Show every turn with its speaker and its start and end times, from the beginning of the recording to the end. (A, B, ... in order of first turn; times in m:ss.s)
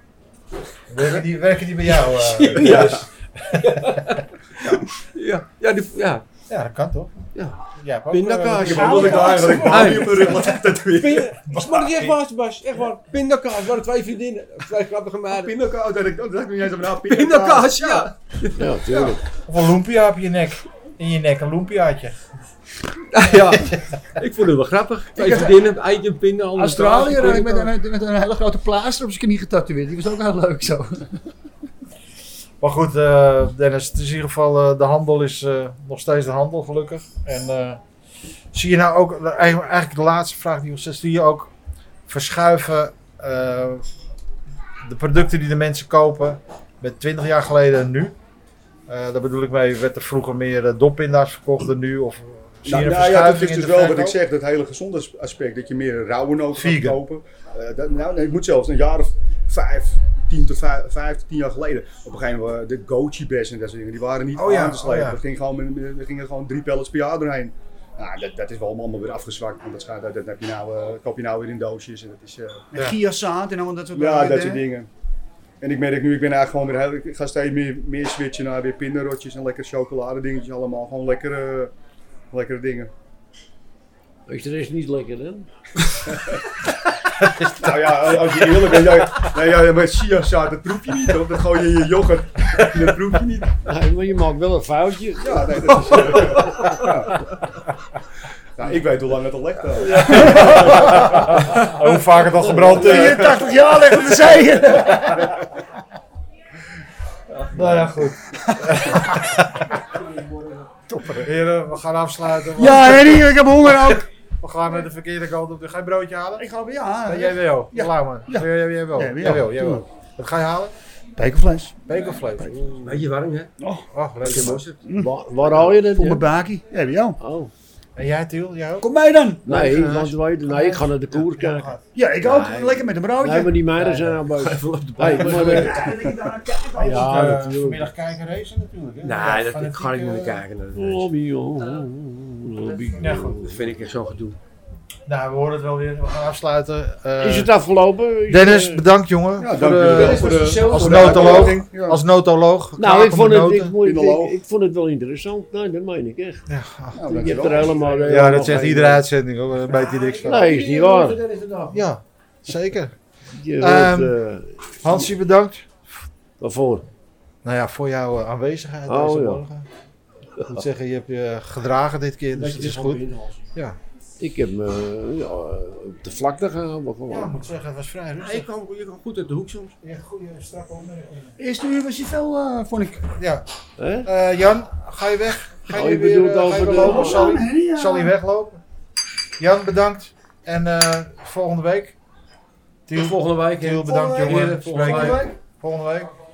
0:00.9-0:04.2 A
0:01.9-0:06.2 B
0:02.5-0:03.0 C
0:06.5-0:12.2 A
0:07.4-0:10.5 B
0:08.7-0:11.4 C
0:08.7-0:10.3 D
0:11.0-0:15.5 B
0:15.3-0:18.1 C
0:17.0-0:18.7 B
0:18.6-0:19.2 E
0:18.9-0:19.2 C
0:19.4-0:22.2 A
0:23.1-0:27.7 B
0:25.2-0:25.6 D
0:26.6-0:31.2 D
0:32.6-0:37.8 A
0:38.5-0:41.5 A
0:42.1-0:43.9 A
0:44.8-0:48.2 A
0:48.9-0:54.2 A
0:52.6-1:12.7 C
0:56.5-0:57.0 A
1:04.4-1:05.2 A
1:04.4-1:04.7 D
1:12.7-1:14.7 D
1:12.7-1:13.0 A
1:13.9-1:14.9 C
1:15.6-1:21.7 C
1:22.3-1:22.9 C
1:24.3-1:25.5 E
1:26.1-1:26.4 C
1:27.2-1:28.7 A
1:27.4-1:33.6 C
1:33.7-1:36.4 E
1:35.2-1:37.1 C
1:38.6-1:41.1 C
1:39.8-1:43.5 A
1:42.6-1:45.2 D
1:42.6-1:43.5 C
1:44.6-1:45.3 A
1:47.5-1:49.8 A
1:48.5-1:49.1 D
1:50.9-1:51.3 D
1:51.2-1:56.5 A
1:52.5-1:54.1 D
1:56.4-1:59.8 D
1:57.0-2:00.7 A
2:01.2-2:02.5 D
2:01.9-2:03.0 A
2:02.8-2:03.5 B
2:03.6-2:07.2 D
2:03.9-2:04.6 A
2:04.2-2:04.8 B
2:04.9-2:06.3 E
2:07.2-2:07.5 E
2:08.0-2:08.9 A
2:08.8-2:09.5 D
2:09.5-2:10.2 B
2:09.5-2:11.8 E
2:10.4-2:11.8 A
2:11.9-2:13.6 D
2:12.2-2:12.9 B
2:13.2-2:15.9 E
2:13.8-2:14.2 A
2:14.3-2:15.9 B
2:15.0-2:16.0 A
2:15.1-2:17.3 D
2:16.8-2:17.9 E
2:16.8-2:20.4 A
2:19.0-2:21.1 B
2:20.8-2:23.6 E
2:23.0-2:23.4 A
2:23.4-2:24.4 B
2:25.1-2:27.5 A
2:27.2-2:28.8 E
2:28.3-2:33.8 A
2:29.4-2:32.0 C
2:29.9-2:31.6 B
2:32.8-2:36.5 E
2:33.8-2:34.4 C
2:36.5-2:37.3 A
2:36.9-2:38.0 C
2:37.0-2:39.0 E
2:37.7-2:38.9 B
2:38.1-2:40.5 A
2:39.7-2:41.8 B
2:40.2-2:41.2 E
2:41.7-2:43.0 A
2:43.3-2:44.9 E
2:43.6-2:44.2 A
2:44.8-2:46.1 A
2:46.4-2:46.9 E
2:47.4-2:49.7 A
2:48.9-2:49.4 E
2:50.4-2:53.0 A
2:52.3-2:53.5 B
2:54.2-2:57.4 E
2:57.1-2:58.5 A
2:58.2-2:59.8 B
2:59.8-3:01.4 A
3:01.4-3:03.1 D
3:03.1-3:03.5 A
3:03.8-3:04.1 E
3:04.0-3:08.6 A
3:05.7-3:07.3 E
3:06.6-3:08.1 D
3:09.4-3:12.0 A
3:12.9-3:16.1 A
3:12.9-3:15.3 B
3:14.4-3:15.1 D